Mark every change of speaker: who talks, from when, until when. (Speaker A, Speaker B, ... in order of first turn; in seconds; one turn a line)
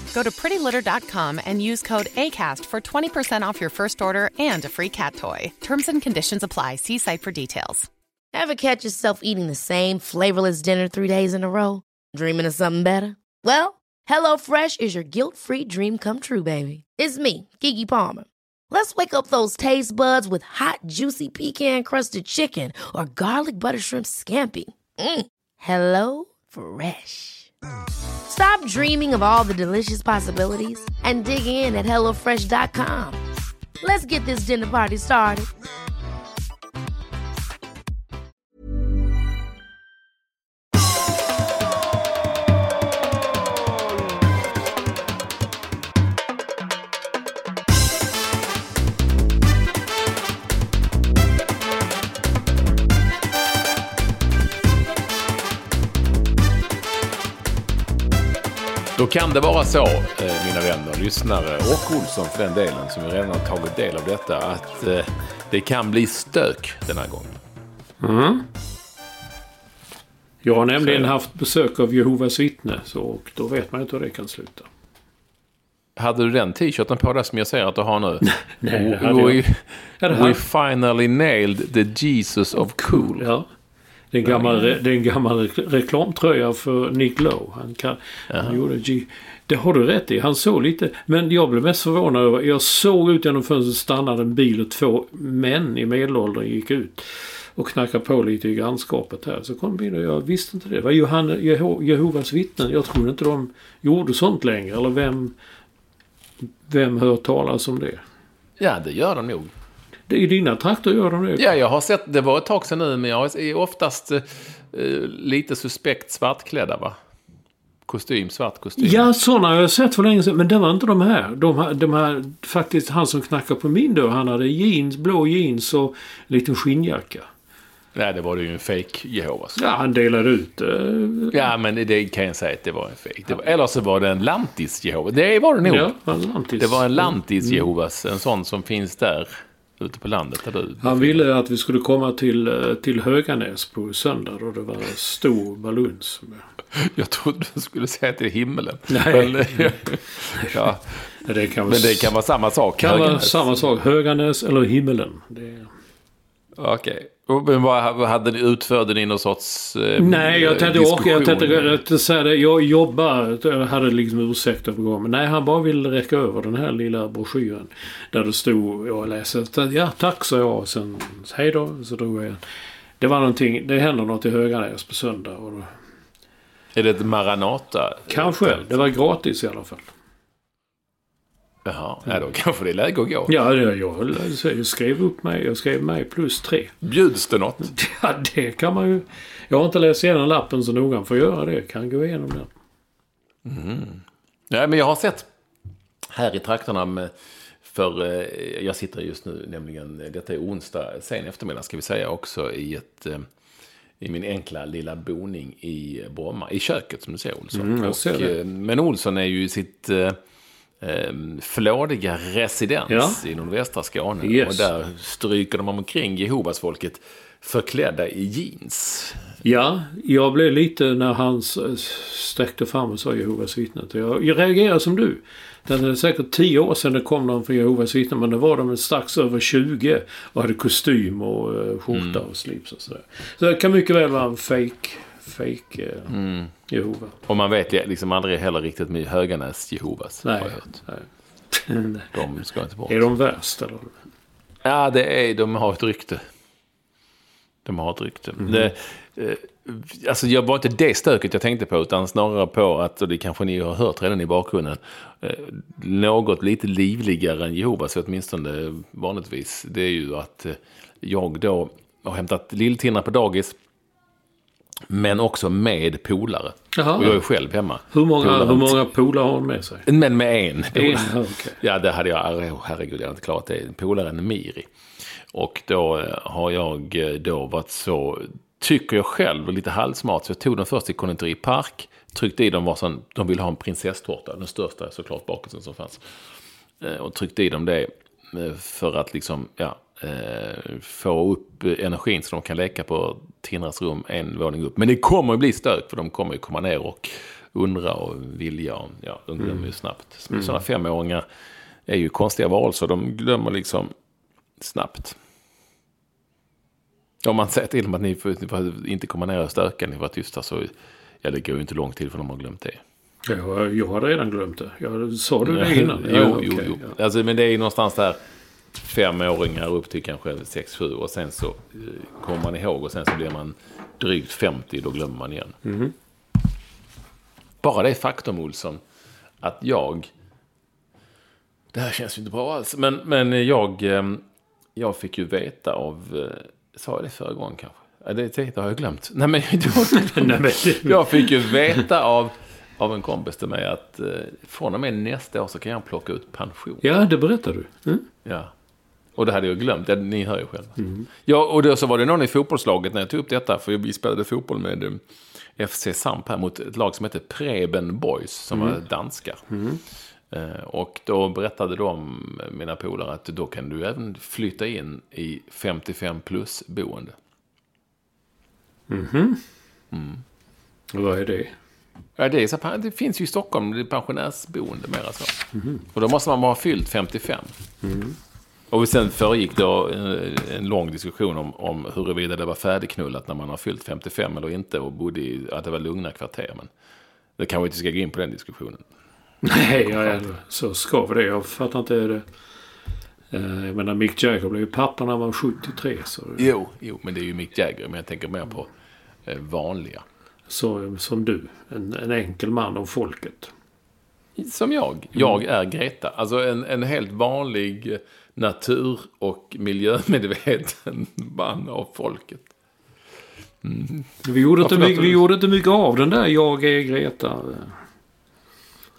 Speaker A: 0.1-7.9
Speaker B: 8.3-27.5
Speaker B: 28.3-33.2
Speaker B: 33.8-35.5
Speaker C: 59.0-67.3
Speaker D: 68.0-68.4
Speaker D: 70.4-74.7
Speaker C: 70.8-71.1
Speaker C: 76.0-83.2
Speaker D: 78.2-79.4
Speaker D: 80.0-80.4
Speaker D: 82.8-83.5
Speaker D: 84.1-105.3
Speaker C: 84.2-84.7
Speaker C: 88.3-88.6
Speaker D: 106.7-108.0
Speaker C: 108.6-109.5
Speaker D: 110.1-111.5
Speaker C: 111.4-117.0
Speaker C: 117.9-119.1
Speaker D: 118.8-127.3
Speaker C: 127.9-129.6
Speaker D: 129.6-131.4
Speaker C: 131.3-135.9
Speaker D: 135.6-137.7
Speaker C: 136.6-141.2
Speaker D: 140.8-146.4
Speaker C: 146.7-151.0
Speaker D: 148.9-149.8
Speaker D: 151.2-152.1
Speaker C: 151.7-153.4
Speaker D: 152.8-155.7
Speaker C: 156.6-161.8
Speaker D: 160.0-172.4
Speaker D: 173.0-175.7
Speaker C: 176.7-178.6
Speaker D: 178.1-179.9
Speaker C: 181.6-183.3
Speaker D: 183.3-186.7
Speaker C: 186.8-187.7
Speaker D: 187.6-192.5
Speaker C: 193.4-195.3
Speaker C: 196.1-197.1
Speaker C: 197.6-203.3
Speaker C: 204.0-210.2
Speaker D: 207.5-208.3
Speaker C: 210.8-219.2
Speaker D: 212.9-213.2
Speaker D: 214.2-214.7
Speaker D: 219.4-236.1
Speaker C: 231.9-232.2
Speaker C: 236.1-236.5
Speaker D: 236.7-237.1
Speaker C: 237.2-240.8
Speaker D: 240.2-242.2
Speaker C: 242.1-243.0
Speaker D: 242.9-243.9
Speaker C: 244.6-246.2
Speaker C: 247.6-263.6
Speaker D: 248.4-248.7
Speaker C: 264.9-268.8
Speaker D: 266.7-267.2
Speaker D: 267.9-269.9
Speaker C: 269.9-274.7
Speaker D: 270.7-271.6
Speaker C: 275.3-286.0
Speaker C: 286.8-301.2
Speaker D: 299.4-299.6
Speaker D: 300.3-300.6
Speaker C: 301.9-303.9
Speaker C: 304.6-305.2
Speaker C: 307.2-310.7
Speaker C: 311.2-312.8
Speaker D: 313.2-316.9
Speaker C: 315.4-318.2
Speaker C: 318.8-325.6
Speaker D: 325.6-325.9
Speaker C: 327.6-328.8
Speaker C: 329.4-330.1
Speaker C: 331.7-334.2
Speaker C: 334.7-346.8
Speaker D: 339.9-341.3
Speaker D: 346.8-348.1
Speaker C: 348.2-348.5
Speaker C: 349.1-355.0
Speaker D: 350.8-351.1
Speaker C: 355.6-359.4
Speaker D: 358.5-358.8
Speaker D: 359.5-359.8
Speaker C: 360.3-367.1
Speaker D: 368.9-369.4
Speaker C: 369.9-370.2
Speaker D: 370.9-371.5
Speaker C: 372.2-375.4
Speaker D: 375.5-375.8
Speaker C: 375.9-377.5
Speaker D: 377.8-378.1
Speaker C: 378.7-386.7
Speaker C: 387.4-388.8
Speaker D: 389.4-392.2
Speaker C: 389.9-390.2
Speaker D: 393.3-396.5
Speaker C: 396.4-398.7
Speaker C: 399.2-400.0
Speaker D: 400.5-403.5
Speaker C: 404.4-412.4
Speaker C: 413.6-415.2
Speaker D: 414.2-417.8